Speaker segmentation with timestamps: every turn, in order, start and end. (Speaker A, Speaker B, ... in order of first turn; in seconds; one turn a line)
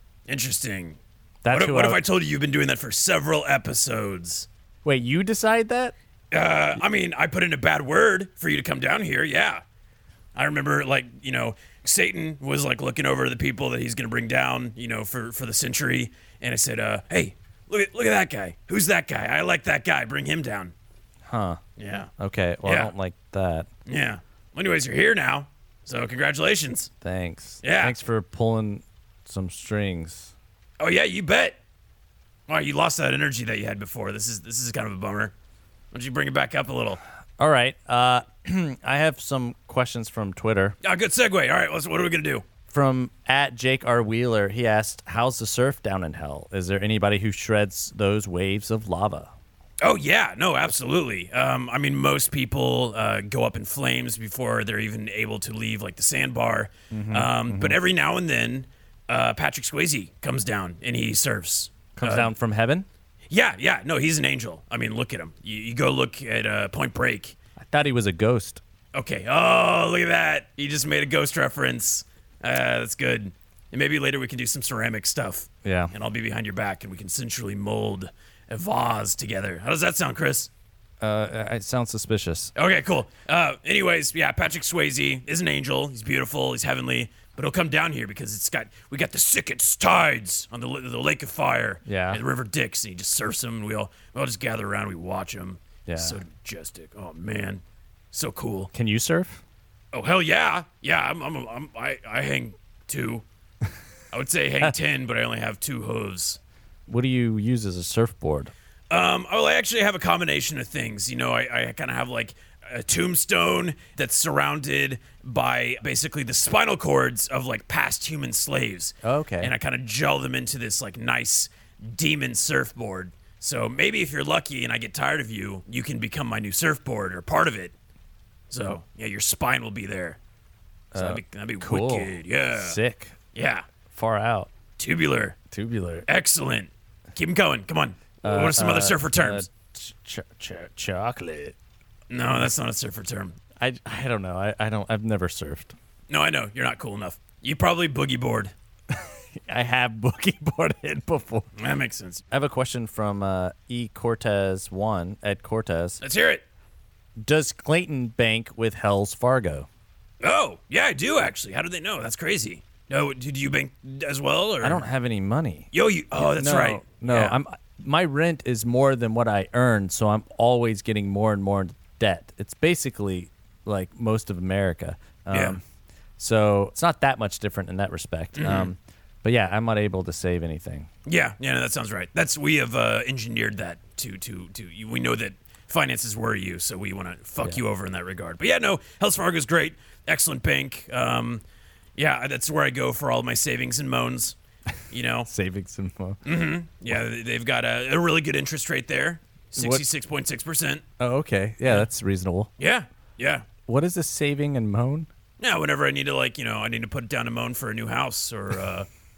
Speaker A: 0.3-1.0
Speaker B: 1.4-2.0
Speaker A: 1.5-4.5
Speaker B: 4.8-5.9
Speaker A: 6.3-9.6
Speaker A: 10.3-20.7
Speaker B: 21.3-21.6
Speaker A: 21.8-22.1
Speaker B: 22.2-23.7
Speaker A: 22.6-22.9
Speaker A: 23.9-26.9
Speaker B: 27.0-30.3
Speaker A: 27.6-27.9
Speaker A: 30.8-31.6
Speaker A: 32.5-35.3
Speaker A: 35.9-37.0
Speaker B: 37.4-40.8
Speaker A: 40.8-42.5
Speaker B: 42.7-49.3
Speaker A: 49.8-62.3
Speaker B: 56.9-57.8
Speaker B: 62.0-62.9
Speaker A: 63.3-67.3
Speaker B: 67.6-68.6
Speaker A: 68.9-80.5
Speaker B: 75.6-75.9
Speaker B: 81.0-82.5
Speaker A: 82.5-98.7
Speaker B: 91.9-92.2
Speaker B: 95.9-96.2
Speaker B: 98.7-99.4
Speaker A: 99.9-103.2
Speaker A: 104.1-106.4
Speaker B: 106.9-108.5
Speaker A: 108.9-127.7
Speaker B: 119.0-119.5
Speaker A: 128.5-130.2
Speaker B: 130.9-133.2
Speaker A: 130.9-132.8
Speaker A: 133.3-133.7
Speaker B: 133.9-134.5
Speaker A: 134.8-135.4
Speaker B: 135.5-136.1
Speaker A: 136.1-139.5
Speaker B: 138.2-141.6
Speaker A: 142.1-143.4
Speaker B: 143.6-145.7
Speaker A: 146.1-148.5
Speaker B: 148.9-151.5
Speaker A: 151.6-152.2
Speaker B: 152.3-156.0
Speaker A: 156.0-156.4
Speaker B: 157.2-159.7
Speaker A: 160.2-164.8
Speaker B: 164.6-175.6
Speaker A: 165.7-167.4
Speaker A: 175.3-175.6
Speaker B: 176.2-180.9
Speaker A: 178.3-178.7
Speaker A: 181.1-191.4
Speaker A: 192.0-194.4
Speaker A: 194.9-195.3
Speaker B: 195.2-196.2
Speaker A: 196.2-200.8
Speaker B: 199.6-199.8
Speaker B: 201.0-202.5
Speaker A: 202.6-203.4
Speaker B: 203.7-205.1
Speaker A: 205.4-208.9